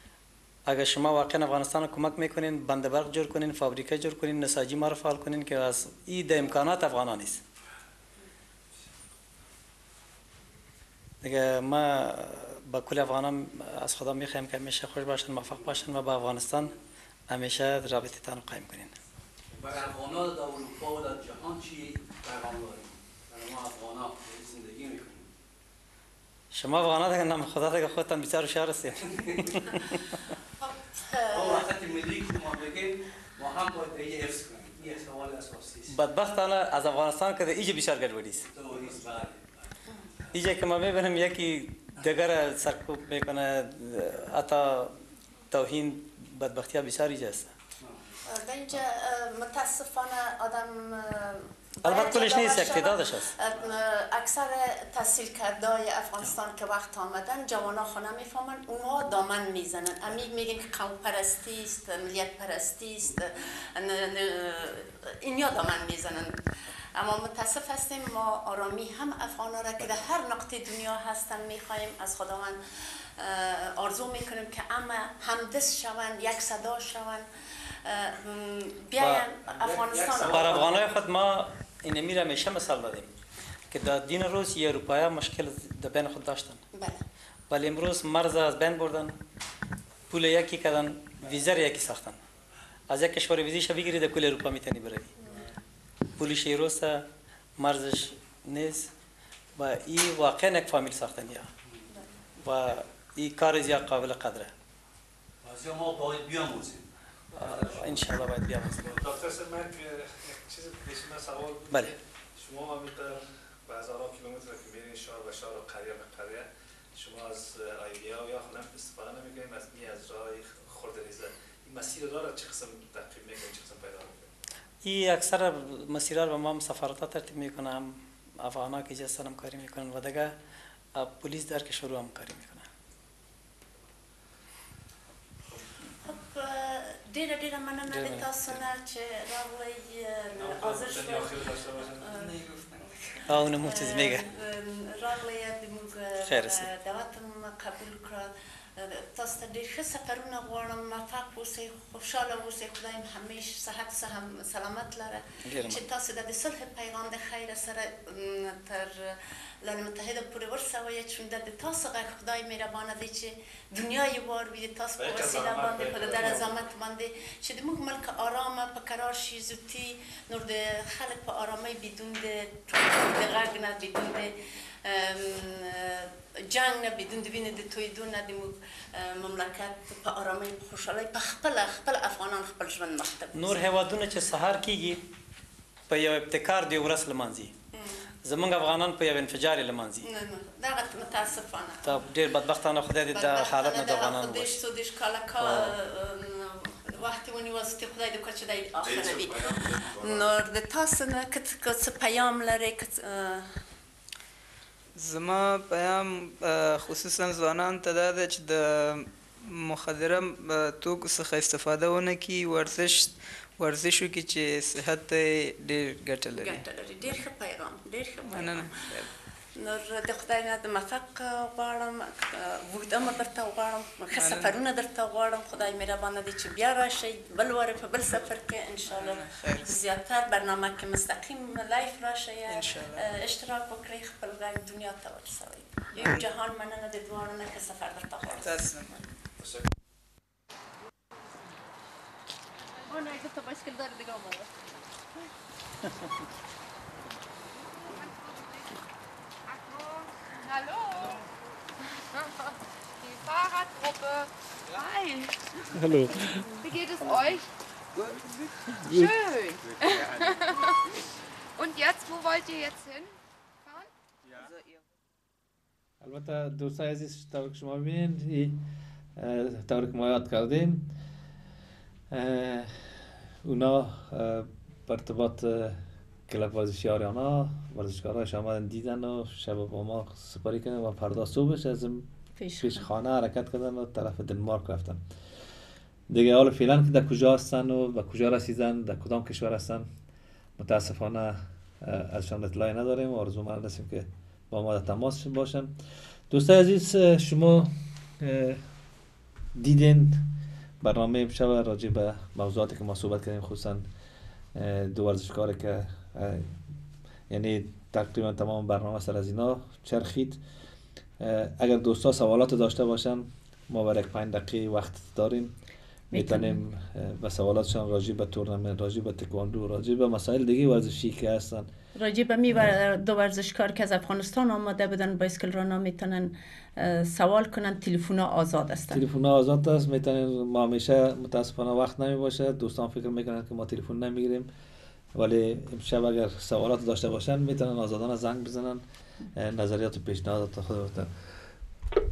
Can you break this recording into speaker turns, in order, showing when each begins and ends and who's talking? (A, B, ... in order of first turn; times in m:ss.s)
0:00.6-0:07.4 A
0:11.2-0:16.7 A
0:17.3-0:18.9 A
0:19.5-0:25.3 B
0:26.5-0:30.2 A
0:30.6-0:31.7 C
0:31.3-0:36.0 B
0:35.9-0:38.5 A
0:38.5-0:39.6 B
0:40.3-0:45.0 A
0:45.5-0:47.5 A
0:48.3-1:06.4 C
0:51.8-0:53.3 A
1:06.9-1:17.2 C
1:17.8-1:20.7 C
1:19.0-1:19.2 A
1:19.7-1:20.4 D
1:20.2-1:23.1 A
1:23.7-1:26.6 A
1:26.7-1:27.0 C
1:27.5-1:29.2 A
1:30.1-1:32.2 A
1:32.9-1:35.1 A
1:36.2-1:37.0 A
1:37.6-1:38.9 A
1:39.6-1:41.5 A
1:42.4-1:44.5 A
1:45.4-1:46.8 B
1:47.3-1:49.0 A
1:47.4-1:47.9 D
1:48.9-2:04.3 D
2:04.8-2:10.3 A
2:10.9-2:12.6 A
2:16.0-2:21.4 C
2:20.4-2:22.1 D
2:22.0-2:22.4 C
2:22.1-2:23.0 E
2:23.1-3:03.7 C
2:23.3-2:24.3 A
2:26.2-2:26.7 A
2:35.4-2:35.8 A
2:45.0-2:46.6 D
3:03.3-3:05.0 A
3:05.9-3:07.5 A
3:07.7-3:08.1 C
3:08.2-3:10.1 A
3:10.0-3:12.1 C
3:11.8-3:14.6 A
3:13.1-3:23.6 C
3:15.4-3:15.8 A
3:18.8-3:20.2 D
3:25.0-3:36.6 E
3:36.3-3:38.7 C
3:38.3-3:39.1 E
3:39.6-3:58.7 C
3:44.1-3:44.5 E
3:48.9-3:49.7 E
3:52.5-3:53.1 E
3:56.0-3:56.2 E
3:58.3-3:59.1 E
4:02.9-4:04.4 F
4:02.9-4:04.2 C
4:07.8-4:08.7 F
4:09.5-4:11.3 F
4:12.1-4:17.5 F
4:15.7-4:16.4 D
4:18.8-4:20.9 F
4:21.6-4:23.1 F
4:23.6-4:24.8 F
4:26.0-4:28.6 D
4:29.2-4:30.9 D
4:32.1-4:32.7 D
4:33.4-4:42.1 D
4:42.4-4:42.9 C
4:42.6-4:45.0 D
4:46.1-4:49.9 D
4:50.6-4:55.7 D
4:56.3-4:58.6 D
4:59.5-5:00.3 D
5:00.8-5:03.8 D
5:04.5-5:06.5 D
5:07.3-5:10.4 D
5:11.2-5:15.5 D
5:16.1-5:16.6 C
5:16.1-5:21.7 D
5:22.0-5:29.0 C
5:28.9-5:34.5 D
5:35.1-5:38.8 D
5:39.3-5:41.1 D